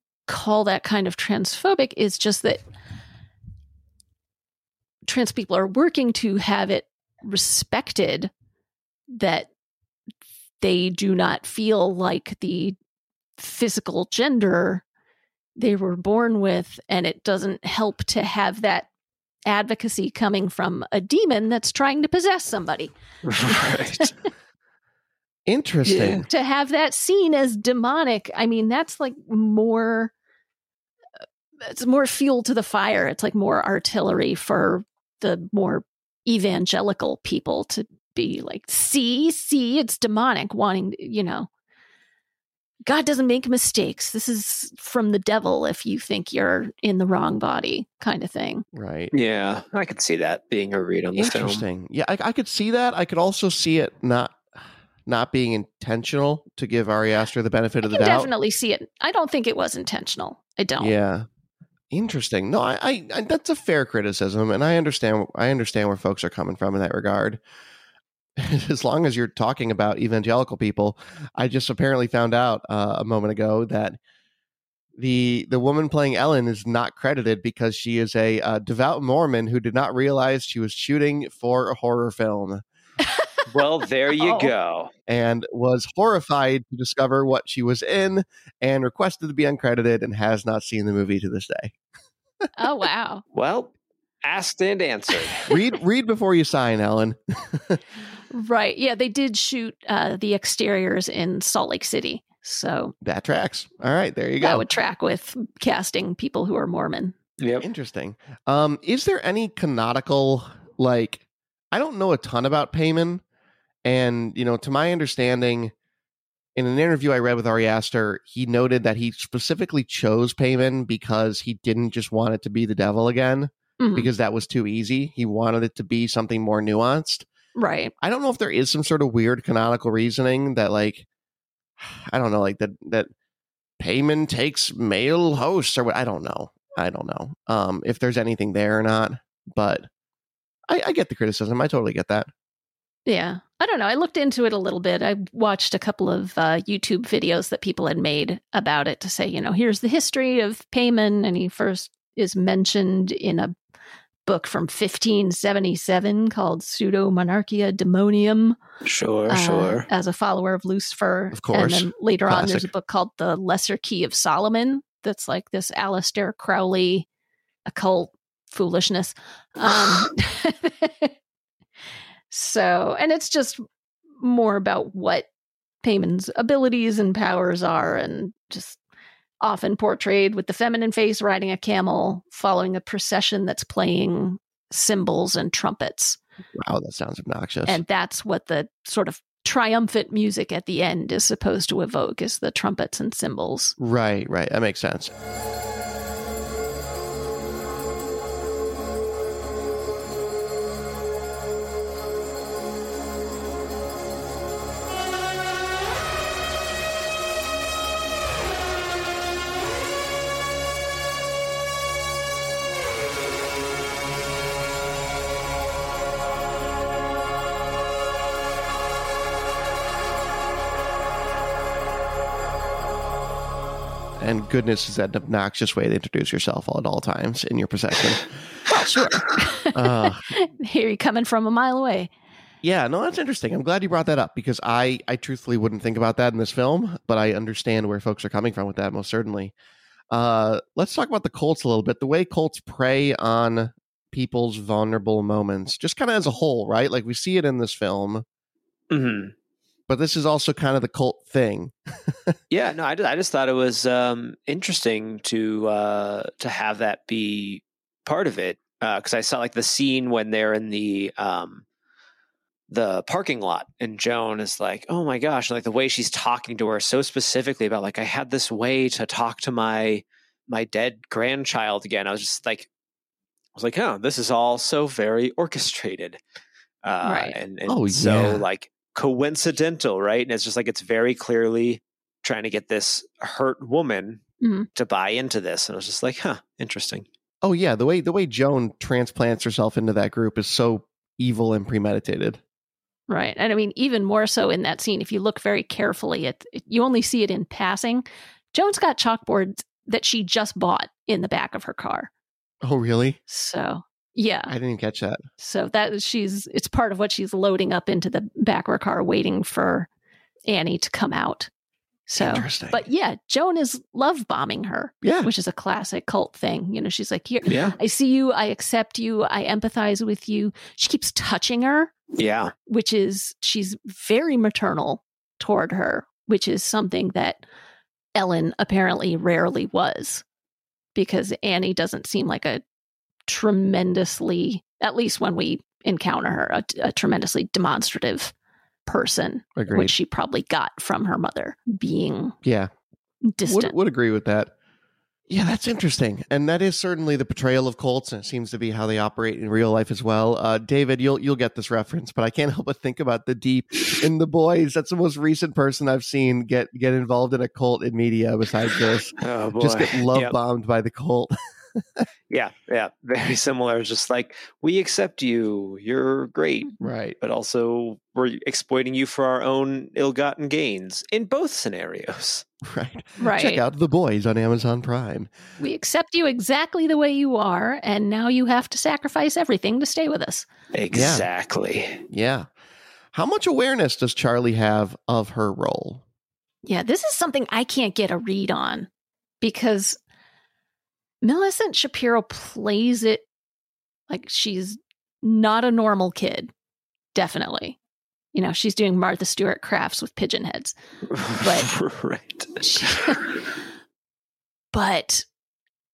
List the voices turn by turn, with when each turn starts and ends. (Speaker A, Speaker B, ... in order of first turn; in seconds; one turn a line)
Speaker A: 0.3-2.6
Speaker A: 5.1-8.3
Speaker A: 9.1-9.5
Speaker A: 10.6-12.8
Speaker A: 13.4-14.8
Speaker A: 15.6-18.9
Speaker A: 19.5-22.9
Speaker B: 23.2-24.1
Speaker A: 23.5-24.1
Speaker C: 25.5-26.3
Speaker B: 25.9-26.2
Speaker A: 26.3-30.1
Speaker A: 31.6-41.5
Speaker A: 42.9-48.6
Speaker C: 48.7-49.1
Speaker B: 49.1-51.6
Speaker C: 51.2-54.4
Speaker C: 55.1-58.3
Speaker A: 57.8-60.9
Speaker C: 60.8-61.3
Speaker C: 61.9-67.4
Speaker C: 68.4-74.0
Speaker C: 75.0-82.6
Speaker B: 83.5-84.9
Speaker A: 84.2-84.5
Speaker C: 85.1-91.8
Speaker A: 92.6-93.2
Speaker B: 93.3-93.7
Speaker B: 94.2-95.5
Speaker C: 95.5-97.8
Speaker A: 98.3-102.9
Speaker C: 103.0-104.7
Speaker A: 104.4-107.2
Speaker B: 107.4-107.7
Speaker C: 107.6-113.2
Speaker C: 113.8-115.7
Speaker C: 116.6-127.3
Speaker A: 123.8-124.1
Speaker A: 127.6-127.9
Speaker C: 128.0-131.1
Speaker C: 131.8-133.1
Speaker C: 133.8-139.9
Speaker C: 140.7-142.3
Speaker A: 143.1-153.5
Speaker A: 154.3-158.6
Speaker B: 158.8-159.9
Speaker A: 159.3-167.1
Speaker C: 161.3-162.7
Speaker A: 167.7-171.1
Speaker A: 172.3-173.6
Speaker A: 174.2-175.3
Speaker A: 175.8-178.8
Speaker A: 179.4-186.2
Speaker C: 186.6-187.8
Speaker A: 187.7-193.8
Speaker C: 193.8-195.1
Speaker C: 224.2-228.3
Speaker A: 228.7-232.1
Speaker C: 229.7-230.3
Speaker C: 232.6-239.5
Speaker C: 240.1-248.2
Speaker B: 248.9-249.3
Speaker C: 249.9-252.4
Speaker B: 252.5-261.6
Speaker B: 262.7-272.7
Speaker B: 273.6-276.2
Speaker B: 276.8-284.2
Speaker A: 277.0-277.4
Speaker C: 277.7-278.4
Speaker A: 284.4-284.7
Speaker B: 284.8-287.1
Speaker C: 287.4-292.4
Speaker A: 293.1-302.1
Speaker C: 302.6-303.2
Speaker A: 303.3-304.5
Speaker C: 304.5-305.2
Speaker A: 305.4-309.9
Speaker A: 310.5-311.5
Speaker A: 312.1-321.9
Speaker C: 312.2-312.9
Speaker C: 315.0-315.3
Speaker B: 317.5-317.8
Speaker B: 322.2-322.5
Speaker A: 322.7-327.4
Speaker A: 328.1-330.2
Speaker A: 330.9-332.6
Speaker A: 333.3-338.3
Speaker A: 338.9-342.4
Speaker C: 339.6-339.9
Speaker C: 342.4-342.7
Speaker A: 343.2-343.8
Speaker C: 343.4-344.5
Speaker C: 345.3-362.1
Speaker B: 359.2-360.4
Speaker B: 362.3-372.4
Speaker C: 366.8-367.2
Speaker C: 372.6-375.3
Speaker A: 373.2-373.6
Speaker A: 375.6-380.5
Speaker B: 380.7-382.0
Speaker C: 380.9-381.3
Speaker C: 382.1-382.5
Speaker C: 383.1-386.0
Speaker A: 386.6-388.9
Speaker A: 389.4-390.0
Speaker A: 391.2-393.2
Speaker A: 394.1-396.5
Speaker A: 397.1-397.8
Speaker A: 398.3-400.8
Speaker B: 401.1-403.2
Speaker A: 401.4-401.7
Speaker A: 402.6-403.2
Speaker A: 404.7-405.3